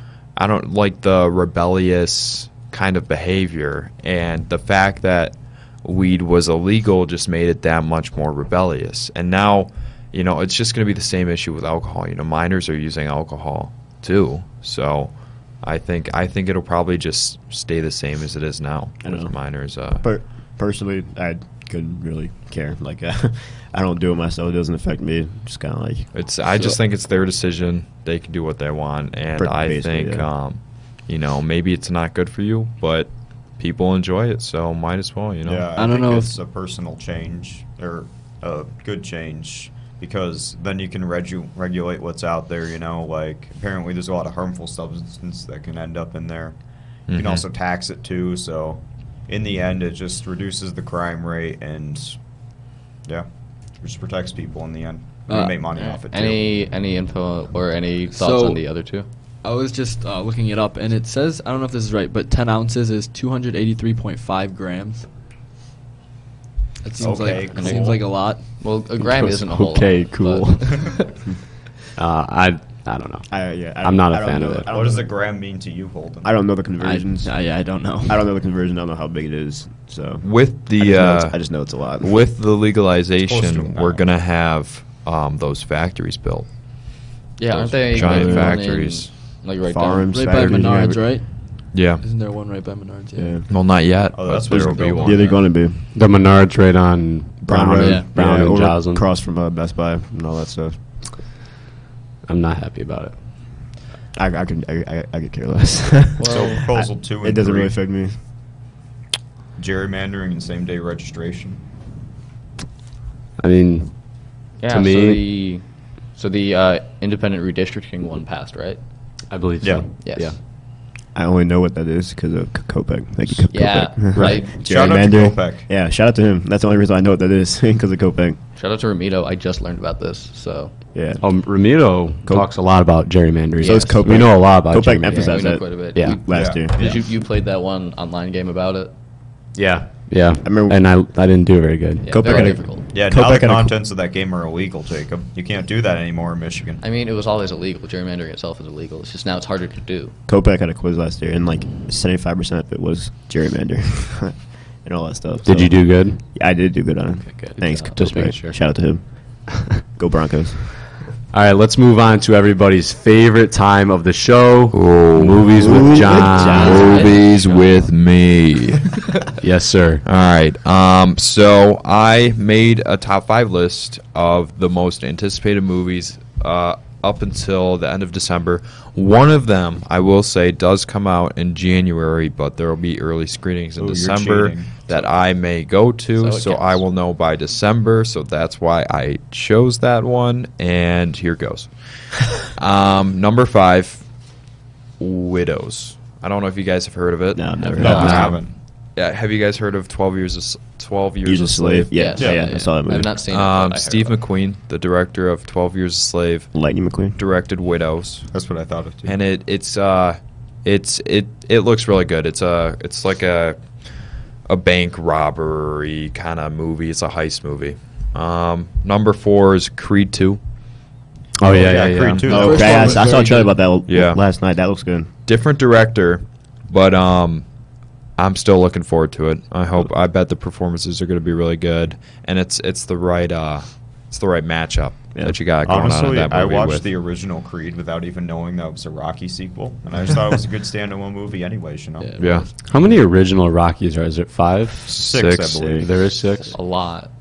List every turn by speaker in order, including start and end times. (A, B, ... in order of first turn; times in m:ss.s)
0:00.3-0:20.1 A
0:19.0-0:26.8 B
0:26.1-0:35.7 A
0:29.4-0:30.3 B
0:35.4-0:46.6 C
0:35.8-0:36.3 D
0:47.1-0:47.4 A
0:47.1-0:52.2 C
0:53.0-0:56.4 C
0:55.3-0:55.6 D
0:55.7-0:59.1 E
0:58.1-0:58.8 D
0:59.4-1:05.1 D
1:06.8-1:08.5 D
1:07.0-1:08.0 C
1:07.5-1:07.8 E
1:08.6-1:11.0 E
1:09.0-1:10.9 F
1:12.0-1:14.7 F
1:13.3-1:15.2 B
1:14.7-1:16.3 C
1:16.2-1:17.5 B
1:16.8-1:18.2 D
1:18.0-1:22.1 B
1:20.2-1:27.0 A
1:23.2-1:24.1 C
1:27.4-1:30.2 E
1:27.7-1:29.3 A
1:27.9-1:28.6 B
1:29.7-1:31.2 B
1:30.1-1:33.4 D
1:30.2-1:30.7 A
1:31.7-1:32.0 A
1:33.2-1:33.5 B
1:33.5-1:35.4 A
1:34.2-1:35.4 C
1:34.5-1:35.8 B
1:35.8-1:39.0 F
1:37.4-1:40.8 B
1:37.8-1:38.1 D
1:42.3-1:43.2 F
1:44.2-1:48.2 B
1:46.2-1:46.8 E
1:46.3-1:47.8 C
1:49.6-1:51.6 C
1:53.4-1:55.2 F
1:54.6-1:58.8 E
1:59.3-2:00.4 F
2:00.0-2:00.3 E
2:01.1-2:08.4 B
2:03.5-2:04.5 E
2:04.1-2:04.4 F
2:04.5-2:05.7 C
2:08.6-2:10.7 E
2:11.0-2:11.2 B
2:11.2-2:15.4 F
2:12.2-2:12.5 B
2:13.6-2:14.0 E
2:13.6-2:17.0 B
2:15.1-2:18.9 E
2:16.3-2:16.7 C
2:19.5-2:22.6 F
2:20.4-2:20.8 B
2:22.0-2:22.9 E
2:22.1-2:23.8 B
2:22.9-2:26.8 C
2:26.8-2:30.1 E
2:30.3-2:40.8 B
2:35.4-2:36.2 F
2:37.3-2:38.9 F
2:41.3-2:47.0 F
2:44.7-2:49.0 A
2:45.6-2:47.1 B
2:46.3-2:47.9 E
2:49.4-2:50.0 F
2:50.0-3:14.1 A
3:03.8-3:05.0 C
3:06.2-3:06.8 E
3:15.0-3:22.2 A
3:17.4-3:18.4 B
3:17.8-3:18.6 C
3:17.9-3:18.1 E
3:18.0-3:18.3 F
3:21.2-3:23.2 B
3:21.9-3:24.2 E
3:22.2-3:22.5 C
3:23.3-3:26.5 A
3:26.5-3:27.2 B
3:27.2-3:28.3 A
3:28.3-3:29.2 C
3:29.0-3:40.4 A
3:41.4-3:42.5 F
3:41.4-3:43.1 C
3:42.3-3:43.7 D
3:42.3-3:45.1 B
3:43.9-3:44.2 A
3:45.3-3:47.5 A
3:48.2-3:56.9 A
3:55.1-3:55.4 B
3:55.6-4:02.2 C
4:02.0-4:02.5 E
4:02.2-4:02.5 A
4:02.6-4:04.9 F
4:04.9-4:05.9 A
4:04.9-4:06.0 C
4:05.8-4:06.6 F
4:06.5-4:07.1 E